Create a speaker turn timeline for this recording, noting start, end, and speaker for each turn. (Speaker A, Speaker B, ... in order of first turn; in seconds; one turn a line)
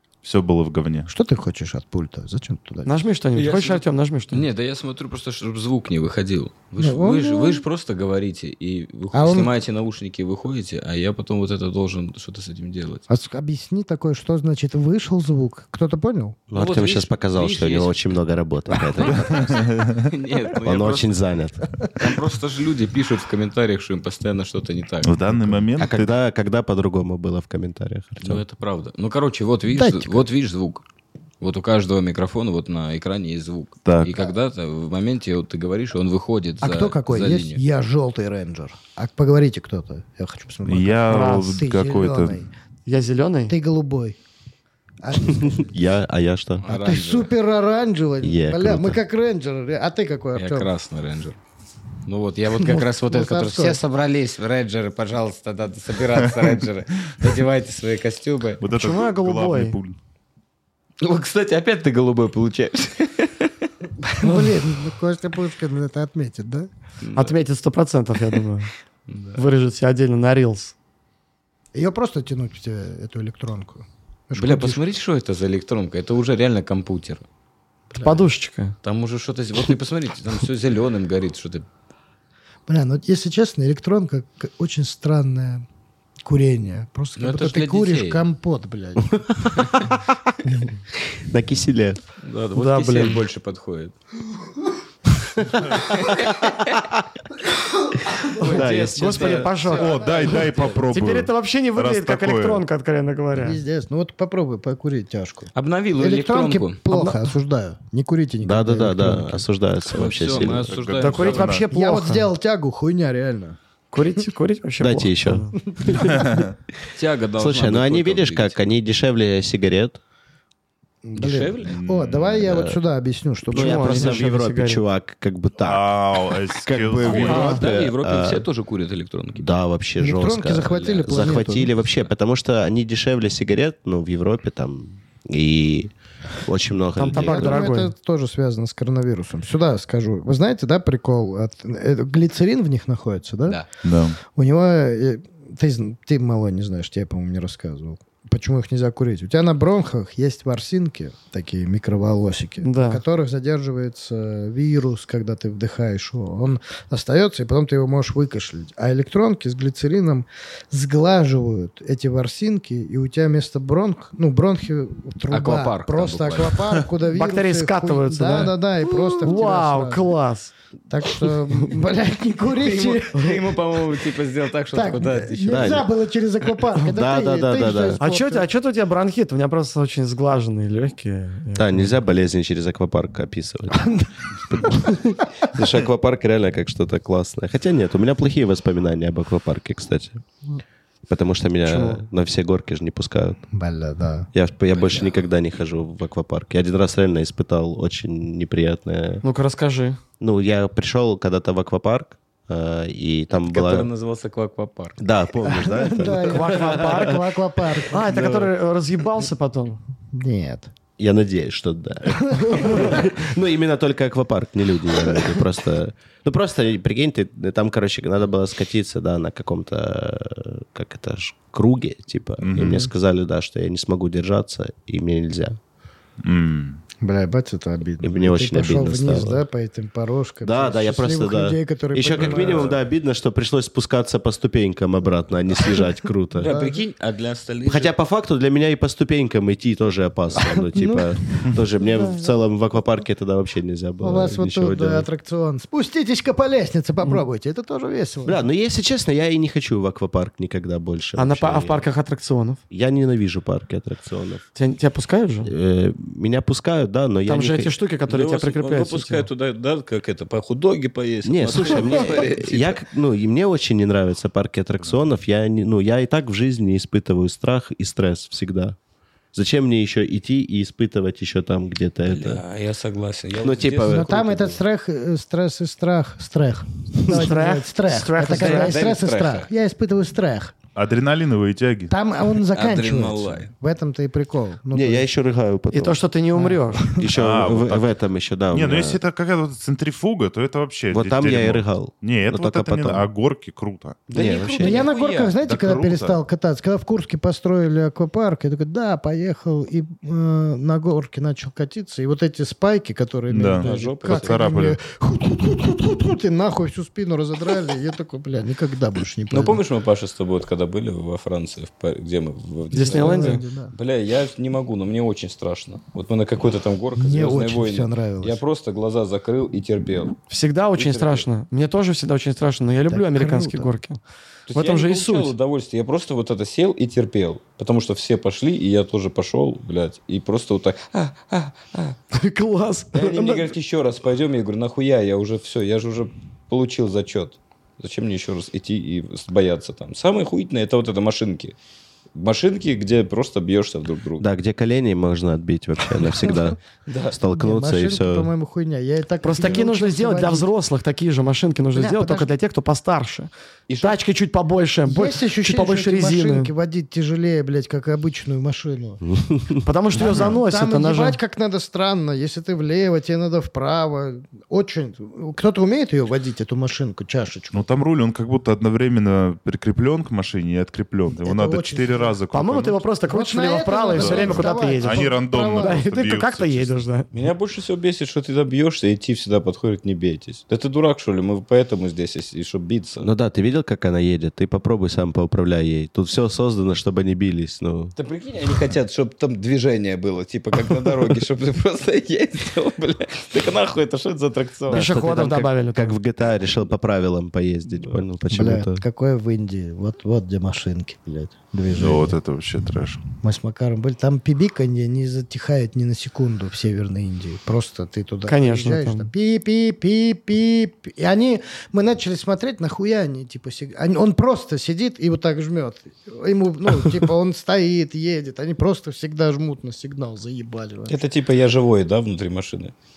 Speaker A: 0.2-1.1
Speaker B: 1.1-3.0
Speaker C: 2.9-4.5
Speaker D: 3.4-13.1
Speaker B: 6.8-7.6
Speaker B: 9.1-9.5
Speaker B: 13.1-16.4
Speaker E: 16.5-19.4
Speaker D: 16.5-18.1
Speaker D: 18.7-21.2
Speaker A: 19.2-20.1
Speaker E: 20.6-21.8
Speaker D: 21.9-25.3
Speaker A: 25.0-26.1
Speaker E: 25.8-28.4
Speaker D: 28.2-30.8
Speaker B: 29.7-30.3
Speaker D: 31.4-37.6
Speaker A: 33.9-34.2
Speaker B: 36.6-42.5
Speaker A: 40.6-42.4
Speaker C: 41.1-41.6
Speaker C: 42.9-43.6
Speaker B: 43.5-44.2
Speaker B: 45.0-45.8
Speaker E: 45.3-46.7
Speaker D: 46.6-47.3
Speaker B: 46.7-50.7
Speaker E: 48.2-49.0
Speaker D: 50.4-51.4
Speaker D: 52.0-58.6
Speaker B: 52.5-53.8
Speaker A: 58.6-60.0
Speaker C: 58.7-59.8
Speaker D: 61.0-63.5
Speaker B: 64.0-66.7
Speaker C: 64.2-64.5
Speaker D: 67.0-67.3
Speaker C: 67.1-68.7
Speaker D: 69.1-69.4
Speaker C: 69.3-70.7
Speaker B: 71.7-74.8
Speaker D: 74.3-77.2
Speaker B: 77.9-78.3
Speaker C: 78.0-78.8
Speaker D: 78.8-81.7
Speaker B: 82.7-85.7
Speaker B: 86.2-89.6
Speaker D: 87.2-88.2
Speaker E: 91.0-92.0
Speaker D: 92.2-94.0
Speaker C: 92.5-93.2
Speaker E: 95.4-96.5
Speaker D: 95.9-96.8
Speaker D: 98.2-100.8
Speaker E: 98.5-99.5
Speaker C: 98.9-100.1
Speaker A: 99.7-102.6
Speaker C: 100.9-103.6
Speaker B: 103.3-109.4
Speaker D: 105.5-106.8
Speaker C: 106.9-107.2
Speaker E: 108.4-110.7
Speaker D: 109.9-111.6
Speaker A: 110.6-111.7
Speaker C: 111.0-112.3
Speaker B: 111.7-113.6
Speaker C: 113.9-115.5
Speaker E: 114.8-116.3
Speaker A: 115.9-116.5
Speaker D: 116.9-118.7
Speaker E: 117.4-120.0
Speaker B: 121.0-124.2
Speaker D: 121.2-121.8
Speaker A: 121.7-122.5
Speaker E: 122.4-122.8
Speaker E: 123.5-125.9
Speaker C: 123.5-124.8
Speaker A: 125.6-127.6
Speaker E: 126.6-128.5
Speaker D: 127.0-129.5
Speaker C: 127.1-127.6
Speaker E: 129.4-135.9
Speaker B: 130.0-131.7
Speaker E: 136.4-137.7
Speaker C: 137.0-137.9
Speaker B: 137.1-143.6
Speaker A: 143.8-144.2
Speaker B: 144.2-170.1
Speaker C: 152.6-153.0
Speaker D: 165.3-166.8
Speaker C: 167.1-170.5
Speaker B: 170.9-173.6
Speaker D: 172.5-175.9
Speaker B: 174.7-178.5
Speaker E: 175.5-175.9
Speaker E: 176.8-178.0
Speaker C: 178.0-181.9
Speaker E: 181.6-183.9
Speaker B: 183.8-185.1
Speaker E: 184.5-190.2
Speaker E: 191.1-193.4
Speaker C: 191.7-192.0
Speaker B: 193.5-194.3
Speaker E: 194.3-199.2
Speaker D: 194.7-195.1
Speaker C: 199.2-200.0
Speaker E: 200.2-203.9
Speaker D: 203.3-205.0
Speaker E: 205.0-207.2
Speaker B: 205.4-208.1
Speaker C: 206.2-207.2
Speaker C: 207.9-209.8
Speaker E: 208.0-208.5
Speaker B: 210.1-210.7
Speaker E: 211.0-225.6
Speaker B: 212.2-213.1
Speaker A: 222.4-222.9
Speaker B: 222.6-222.8
Speaker A: 226.2-226.8
Speaker B: 227.0-232.8
Speaker E: 228.0-229.4
Speaker E: 230.4-236.5
Speaker A: 232.2-232.8
Speaker D: 236.4-237.9
Speaker B: 236.4-236.8
Speaker E: 237.7-245.1
Speaker B: 240.3-242.3
Speaker B: 244.0-248.4
Speaker E: 248.2-251.8
Speaker C: 251.2-252.6
Speaker E: 252.7-254.4
Speaker C: 254.6-255.5
Speaker E: 255.4-257.8
Speaker C: 257.3-259.3
Speaker D: 258.1-262.8
Speaker E: 261.2-268.8
Speaker E: 269.3-272.4
Speaker D: 272.1-274.5
Speaker E: 273.4-274.6
Speaker B: 273.9-280.5
Speaker C: 277.1-278.8
Speaker D: 278.2-279.5
Speaker A: 280.8-281.9
Speaker B: 281.9-285.1
Speaker D: 282.4-283.5
Speaker E: 284.7-286.1
Speaker C: 285.7-286.9
Speaker B: 286.4-287.1
Speaker E: 287.0-289.0
Speaker A: 287.0-287.9
Speaker A: 288.5-294.1
Speaker E: 290.9-293.1
Speaker D: 294.1-295.3
Speaker E: 294.1-294.9
Speaker B: 294.6-309.6
Speaker A: 295.4-296.2
Speaker A: 303.3-304.8
Speaker D: 303.6-304.4
Speaker D: 309.3-320.2
Speaker C: 312.7-313.4
Speaker B: 312.8-313.7
Speaker B: 317.0-318.4
Speaker C: 320.3-324.0
Speaker D: 320.8-321.3
Speaker B: 322.9-323.7
Speaker D: 324.5-332.0
Speaker C: 324.5-325.3
Speaker C: 332.1-333.5
Speaker D: 332.9-341.6
Speaker D: 342.1-344.2
Speaker E: 344.2-346.6
Speaker D: 346.9-347.2
Speaker E: 347.1-348.3
Speaker B: 347.2-350.5
Speaker C: 349.2-356.5
Speaker B: 351.8-352.3
Speaker D: 353.7-354.0
Speaker B: 354.9-359.0
Speaker E: 359.1-359.6
Speaker C: 359.6-361.2
Speaker B: 359.9-367.7
Speaker A: 360.0-360.3
Speaker A: 367.5-372.8
Speaker B: 371.2-372.2
Speaker C: 372.3-377.1
Speaker B: 373.1-375.8
Speaker A: 373.9-376.8
Speaker D: 377.1-383.1
Speaker E: 383.0-387.9
Speaker D: 388.0-394.9
Speaker E: 394.7-398.8
Speaker C: 394.7-396.0
Speaker B: 398.3-402.2
Speaker A: 401.7-403.0
Speaker B: 403.2-420.9
Speaker C: 408.3-409.1
Speaker D: 420.9-422.7